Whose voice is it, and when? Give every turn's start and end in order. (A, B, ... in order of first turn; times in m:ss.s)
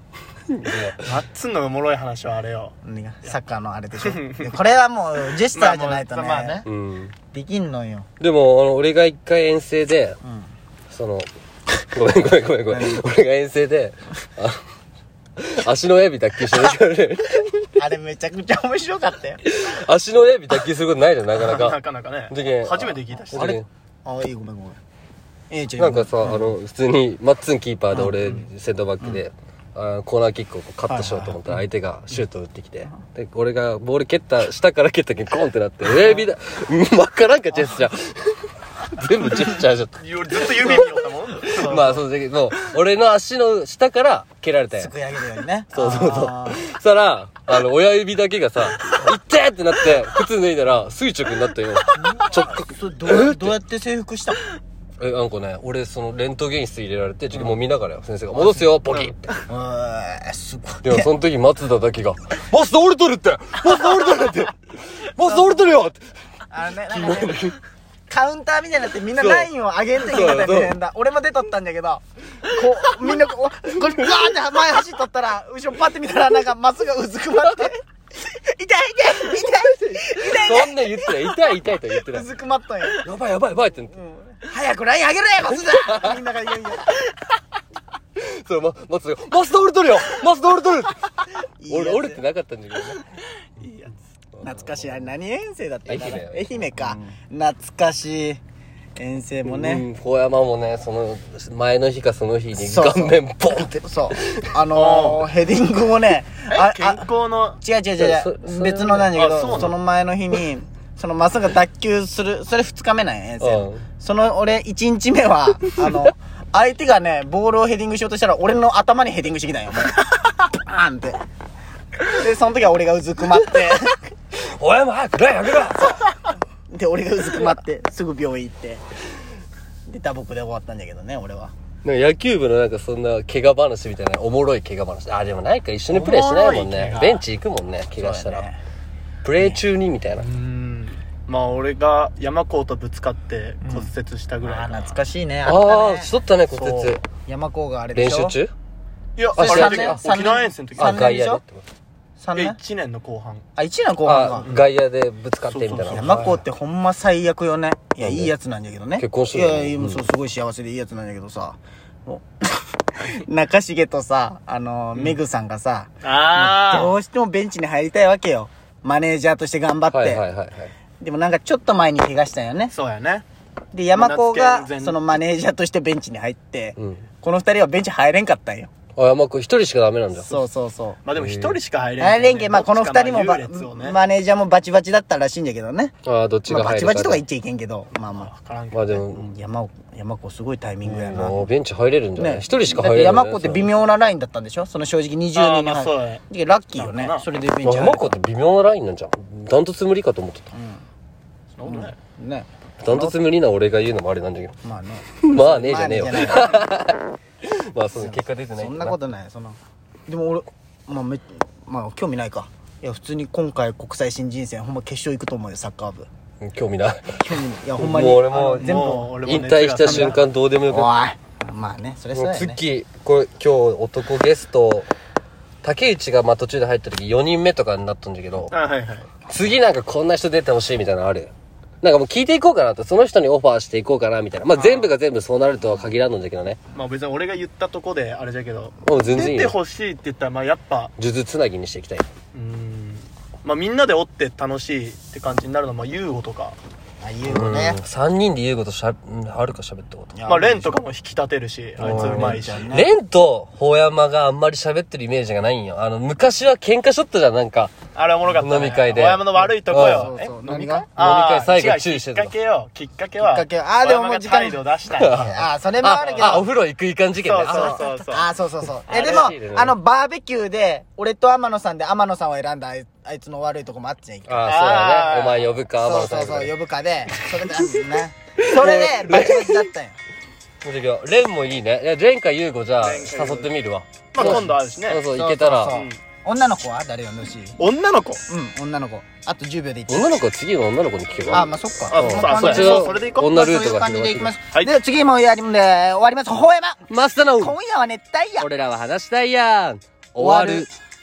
0:00.5-0:01.0 A
0:01.0-0:03.4 B
0:02.8-0:06.7 C
0:04.0-0:04.6 B
0:05.3-0:06.6 B
0:06.6-0:07.1 A
0:07.3-0:08.1 C
0:08.2-0:10.2 A
0:10.2-0:10.5 C
0:10.9-0:11.3 A
0:11.9-0:14.6 A
0:12.7-0:13.0 C
0:15.4-0:17.7 A
0:17.8-0:19.4 C
0:19.4-0:23.6 A
0:21.4-0:23.6 B
0:24.0-0:24.8 C
0:25.5-0:26.5 C
0:25.8-0:38.4 A
0:27.9-0:28.4 C
0:30.9-0:31.4 C
0:38.9-0:40.0 A
0:40.0-0:42.0 B
0:40.6-0:40.9 C
0:41.5-0:41.9 C
0:41.6-0:44.9 A
0:44.7-0:46.6 C
0:45.7-0:53.5 A
0:51.9-0:54.4 C
0:55.0-0:59.3 A
0:58.3-0:58.7 C
0:58.8-0:59.4 B
0:59.5-1:01.1 C
1:00.8-1:06.0 A
1:05.2-1:05.7 C
1:06.5-1:07.5 C
1:06.9-1:07.6 A
1:08.1-1:23.0 C
1:09.2-1:10.7 A
1:19.8-1:22.3 A
1:22.9-1:23.9 A
1:23.9-1:27.1 C
1:25.5-1:26.2 A
1:28.2-1:31.0 A
1:31.6-1:32.2 C
1:31.7-1:33.0 A
1:33.6-1:33.9 B
1:34.3-1:35.1 A
1:34.4-1:38.4 C
1:35.9-1:37.1 A
1:39.0-1:39.9 C
1:39.4-1:44.6 A
1:42.5-1:47.1 C
1:44.7-1:45.3 B
1:46.5-1:47.6 B
1:47.6-2:01.2 C
1:48.0-1:49.7 A
1:49.0-1:49.8 B
1:53.4-1:53.8 A
2:02.1-2:04.1 C
2:04.3-2:06.0 A
2:06.7-2:08.8 C
2:09.9-2:11.5 C
2:11.8-2:18.4 A
2:15.9-2:17.2 B
2:18.0-2:18.6 C
2:19.2-2:20.3 A
2:19.4-2:19.6 C
2:20.1-2:25.0 B
2:23.6-2:26.1 C
2:25.4-2:27.0 A
2:26.5-2:27.0 B
2:27.2-2:28.4 C
2:27.9-2:28.5 A
2:29.2-2:31.1 B
2:29.4-2:30.0 A
2:29.4-2:31.4 C
2:30.8-2:31.6 A
2:32.2-2:32.6 C
2:32.3-2:33.4 B
2:33.6-2:34.5 C
2:34.0-2:36.4 A
2:34.4-2:34.7 B
2:35.5-2:36.4 B
2:35.9-2:50.2 C
2:38.0-2:38.3 A
2:39.0-2:40.0 A
2:46.0-2:47.0 B
2:49.9-2:50.7 A
2:51.0-2:52.7 C
2:52.7-2:53.2 B
2:53.7-2:58.7 C
2:53.9-2:55.1 B
2:56.8-2:57.1 A
2:59.0-3:00.3 A
3:00.1-3:00.5 B
3:00.3-3:01.0 C
3:01.0-3:04.0 B
3:01.1-3:01.6 A
3:02.0-3:05.9 C
3:06.0-3:07.2 A
3:06.5-3:08.3 C
3:08.1-3:09.0 B
3:08.7-3:09.3 A
3:09.0-3:11.5 C
3:10.8-3:13.6 A
3:12.2-3:18.2 C
3:15.4-3:16.2 B
3:16.8-3:17.3 B
3:17.6-3:20.5 A
3:20.5-3:20.8 C
3:21.6-3:22.0 B
3:21.6-3:23.2 C
3:22.8-3:24.6 A
3:24.6-3:26.6 C
3:25.2-3:29.0 A
3:27.9-3:36.1 C
3:36.4-3:37.2 A
3:37.1-3:39.2 C
3:37.8-3:40.9 A
3:38.3-3:40.2 B
3:39.8-3:42.6 C
3:42.1-3:44.9 A
3:45.6-3:48.5 A
3:48.5-3:49.1 B
3:49.3-3:51.3 A
3:51.8-3:56.6 A
3:54.5-3:54.9 B
3:56.7-4:00.9 B
3:58.8-3:59.6 A
4:01.0-4:02.1 A
4:02.3-4:06.6 B
4:07.0-4:07.8 C
4:07.3-4:10.1 A
4:10.1-4:10.8 C
4:10.3-4:12.7 B
4:11.8-4:12.9 C
4:11.8-4:17.8 A
4:17.9-4:26.5 B
4:18.4-4:20.1 A
4:19.7-4:20.9 C
4:21.0-4:22.3 A
4:23.2-4:26.5 C
4:25.0-4:25.3 A
4:25.8-4:27.9 A
4:27.2-4:28.3 B
4:27.5-4:34.6 C
4:28.9-4:29.4 B
4:29.0-4:29.8 A
4:34.2-4:36.5 A
4:34.4-4:35.6 B
4:35.7-4:40.0 C
4:38.4-4:39.6 A
4:40.6-4:45.8 A
4:42.8-4:43.5 B
4:44.1-4:45.0 B
4:44.2-4:44.5 C
4:45.1-4:47.6 C
4:45.7-4:46.0 B
4:47.6-4:48.2 B
4:48.3-4:50.2 C
4:49.9-4:54.3 A
4:51.3-4:58.5 C
4:51.3-4:53.4 B
4:56.9-4:57.6 A
4:58.4-5:00.7 A
5:00.2-5:00.7 C